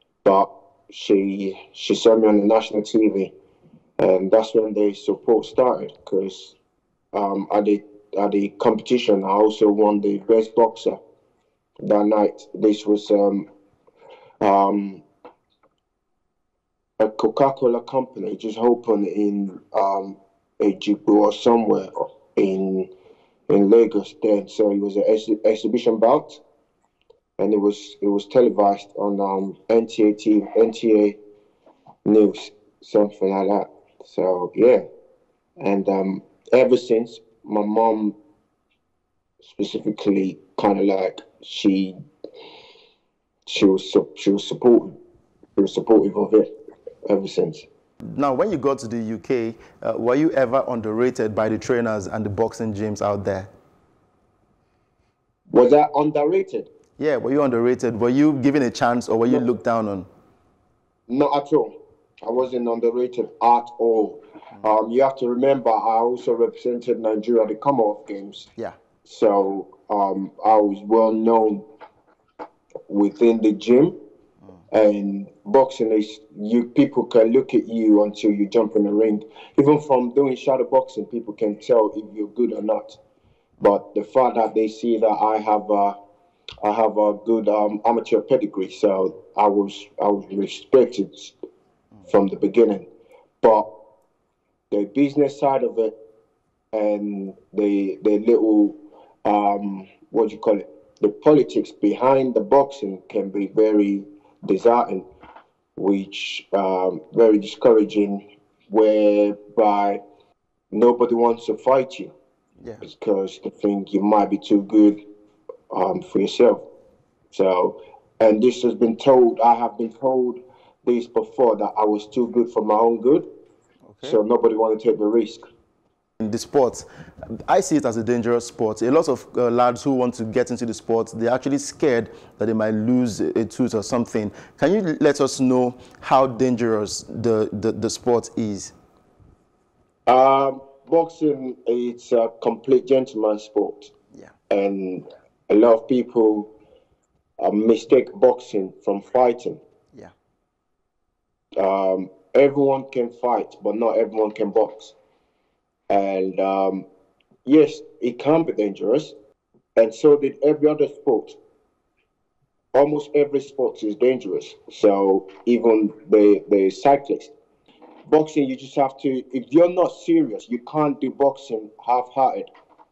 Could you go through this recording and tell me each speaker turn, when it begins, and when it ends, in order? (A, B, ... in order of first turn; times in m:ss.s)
0:00.2-0:03.3 A
0:04.0-0:06.5 A
0:07.1-0:11.0 A
0:11.8-0:13.5 A
0:14.4-0:15.0 A
0:17.0-0:22.9 A
0:23.5-0:26.4 A
0:27.4-0:31.2 A
0:32.0-0:34.9 A
0:35.6-0:38.2 A
0:39.4-0:42.0 A
0:43.5-0:45.0 A
0:45.6-0:46.5 A
0:47.0-0:47.7 A
0:48.0-0:53.5 B
0:55.5-0:56.7 A
0:57.0-1:00.1 B
1:01.1-1:08.5 A
1:09.0-1:11.7 A
1:12.9-1:14.0 A
1:14.7-1:23.0 A
1:23.6-1:26.0 A
1:26.6-1:31.4 A
1:32.0-1:32.9 A
1:33.4-1:33.7 A
1:34.7-1:35.9 A
1:36.7-1:45.1 A
1:45.8-1:50.0 A
1:50.7-1:52.1 A
1:52.8-1:55.0 A
1:55.7-1:56.6 A
1:57.3-2:03.3 A
2:03.9-2:04.2 B
2:04.0-2:05.4 A
2:06.2-2:18.7 B
2:20.1-2:23.9 A
2:24.5-2:26.5 A
2:27.4-2:29.6 A
2:31.6-2:34.9 A
2:35.9-2:36.8 A
2:37.5-2:39.1 A
2:39.8-2:41.4 A
2:42.7-2:47.3 A
2:48.1-2:52.5 A